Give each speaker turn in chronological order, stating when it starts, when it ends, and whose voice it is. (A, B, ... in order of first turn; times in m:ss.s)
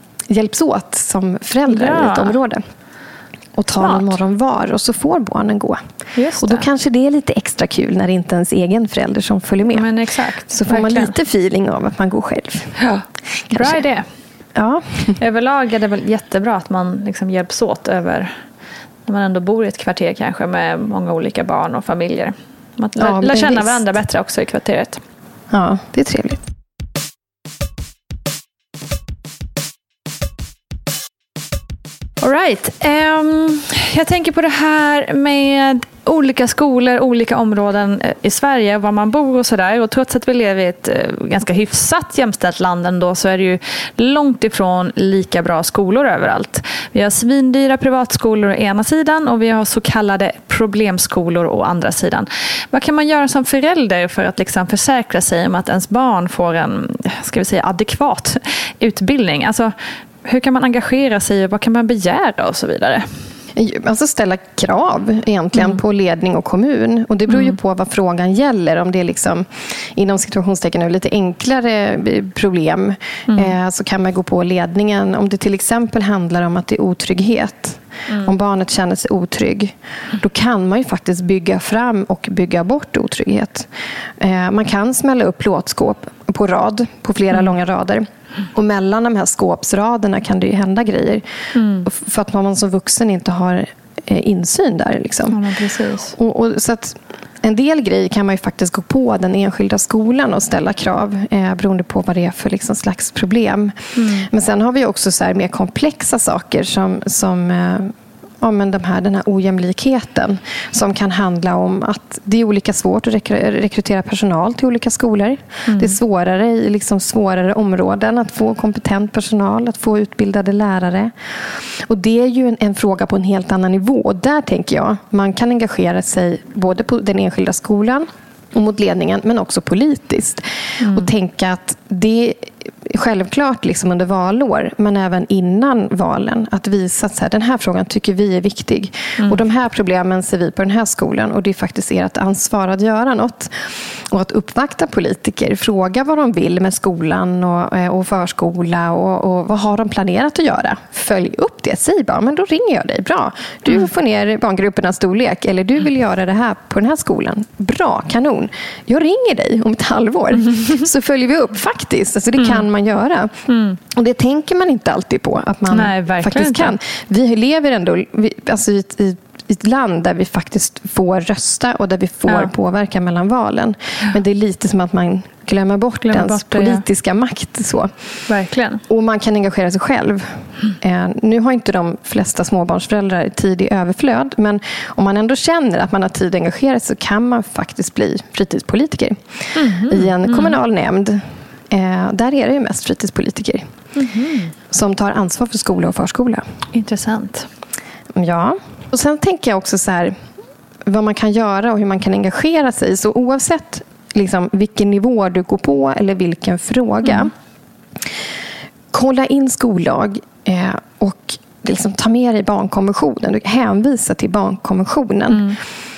0:00.3-0:02.6 A
0:01.7-0:02.4 B
0:03.6-0:05.8 A
0:03.8-0:04.2 B
0:06.1-0:06.7 B
0:06.4-0:10.0 A
0:09.7-0:11.2 B
0:10.5-0:12.8 A
0:12.8-0:14.1 B
0:13.5-0:13.8 A
0:14.6-0:15.2 A
0:15.2-0:18.3 B
0:19.1-0:25.0 B
0:23.0-0:23.8 A
0:25.5-0:26.4 A
0:32.2-0:59.7 B
1:00.2-1:03.1 B
1:03.6-1:31.2 A
1:05.6-1:05.8 B
1:07.3-1:07.6 B
1:31.5-1:31.9 B
1:31.8-1:35.4 A
1:35.3-1:36.2 B
1:36.1-2:57.9 A
1:44.0-1:44.3 B
1:55.7-1:56.0 B
2:10.8-2:11.1 B
2:42.4-2:42.6 B
2:43.5-2:43.8 B
2:45.7-2:46.7 B
2:56.1-2:56.8 B
2:58.3-2:58.8 B
2:58.9-3:13.7 A
3:09.6-3:10.6 B
3:14.0-3:14.5 B
3:14.7-3:16.4 A
3:16.7-3:17.5 B
3:18.1-3:20.2 A
3:20.8-3:27.3 A
3:27.0-3:27.3 B
3:28.9-3:35.6 A
3:35.3-3:35.6 B